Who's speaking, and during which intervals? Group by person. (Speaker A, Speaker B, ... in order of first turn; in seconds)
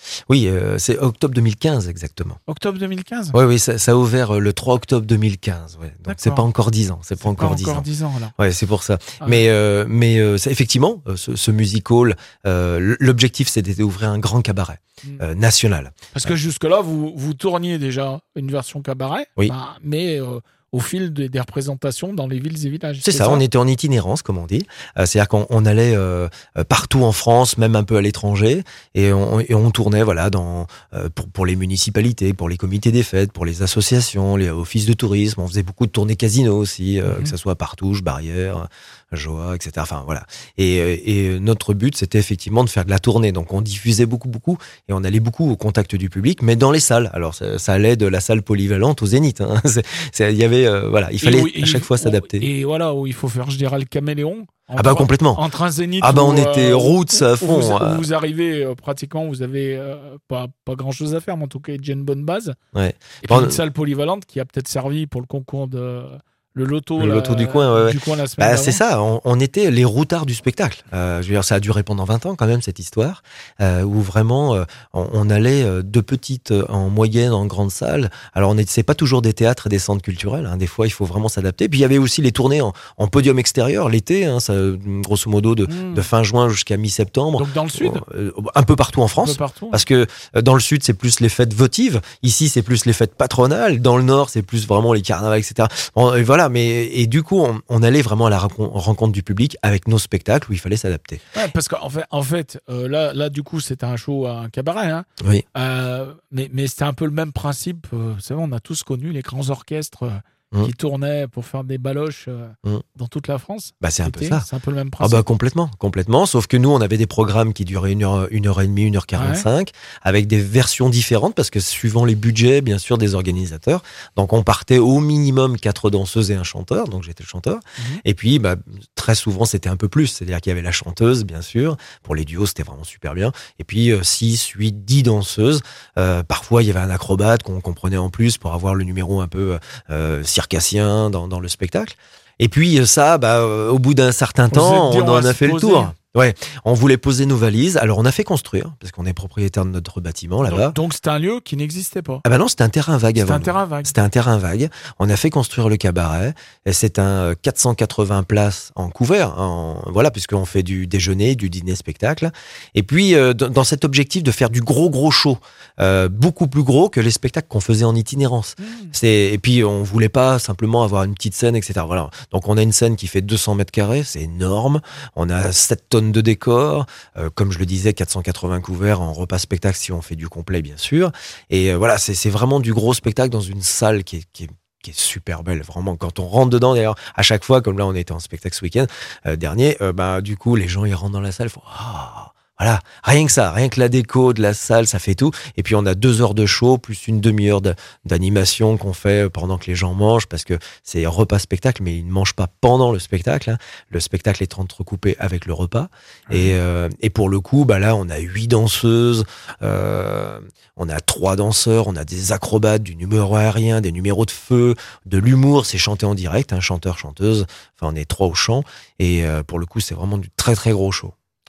Speaker A: 0.3-2.4, 3.3-7.9, 8.4-16.3, 23.0-52.5, 54.8-55.4, 56.0-58.0, 62.7-63.6, 67.0-101.2, 105.2-105.5, 113.8-114.5, 115.0-150.8, 152.2-221.1
Speaker B: 2.5-3.4, 6.1-6.5, 7.2-8.3, 16.1-23.4, 37.1-37.3, 51.2-62.6, 63.2-68.8, 85.7-86.1, 87.4-88.0, 89.2-89.8, 101.3-115.2, 119.1-119.5, 144.5-145.9, 150.4-152.2, 153.2-153.9, 168.6-168.9, 206.3-206.6